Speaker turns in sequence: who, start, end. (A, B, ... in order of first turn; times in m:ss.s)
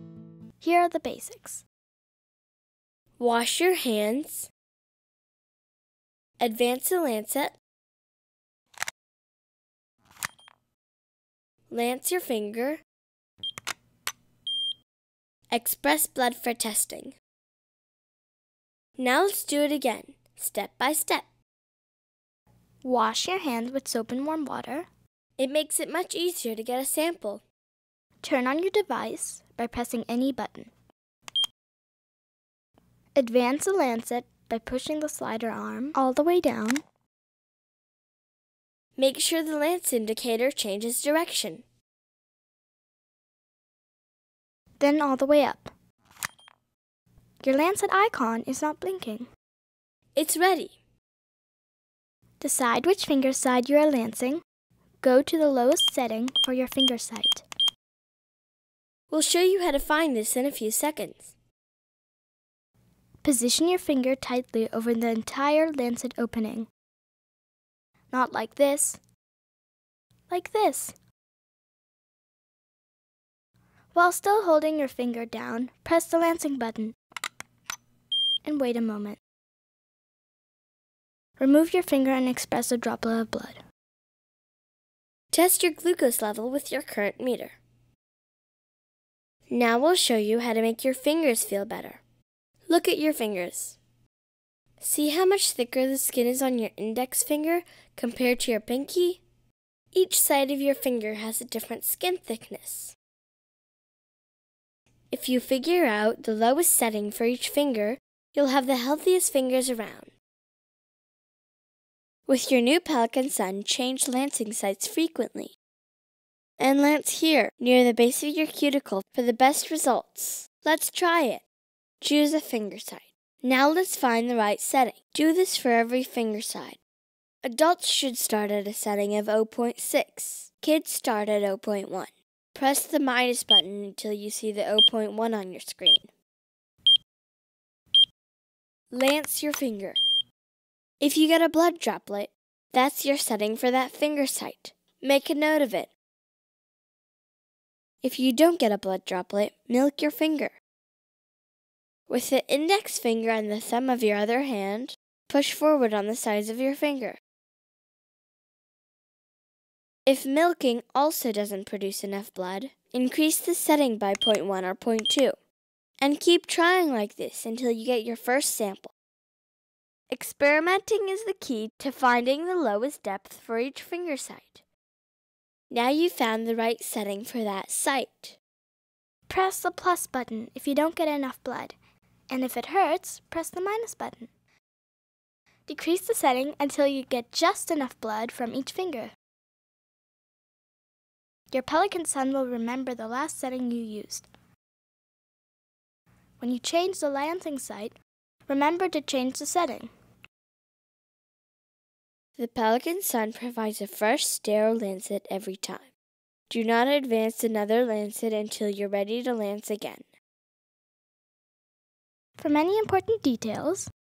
0:00.6-0:01.6 A
0:03.2-0:04.5 B
0:06.4-0:07.6 B
0:11.7-0:12.8 B
0:15.5-0:17.2 B
0:19.0-0:21.3 B
0:22.8-0:24.9 A
0:25.4-0:27.4 B
0:28.2-0:30.7 A
0:33.2-0:36.8 A
0:39.0-0:41.6 B
0:44.8-0:45.7 A
0:47.4-0:49.3 A
0:50.1-0:50.8 B
0:52.4-0:54.4 A
0:55.0-0:57.4 A
0:59.1-1:01.3 B
1:03.2-1:06.7 A
1:08.1-1:09.0 A
1:10.3-1:10.9 A
1:13.9-1:17.0 A
1:18.4-1:19.2 A
1:21.4-1:23.6 A
1:25.3-1:27.6 B
1:29.5-1:32.0 B
1:32.7-1:33.8 B
1:34.8-1:39.2 B
1:39.9-1:42.9 B
1:45.1-1:50.1 B
1:52.3-1:55.5 B
1:56.6-2:01.4 B
2:02.0-2:06.8 B
2:07.4-2:16.1 B
2:18.9-2:20.0 B
2:21.0-2:25.9 B
2:28.0-2:30.6 B
2:32.1-2:37.2 B
2:40.0-2:45.4 B
2:46.0-2:48.9 B
2:50.1-2:54.6 B
2:55.7-2:58.4 B
2:59.3-3:01.7 A
3:02.3-3:04.3 A
3:05.7-3:09.1 A
3:11.5-3:14.3 A
3:16.4-3:18.0 A
3:18.5-3:19.9 A
3:22.4-3:25.9 B
3:26.5-3:30.0 B
3:32.4-3:33.9 A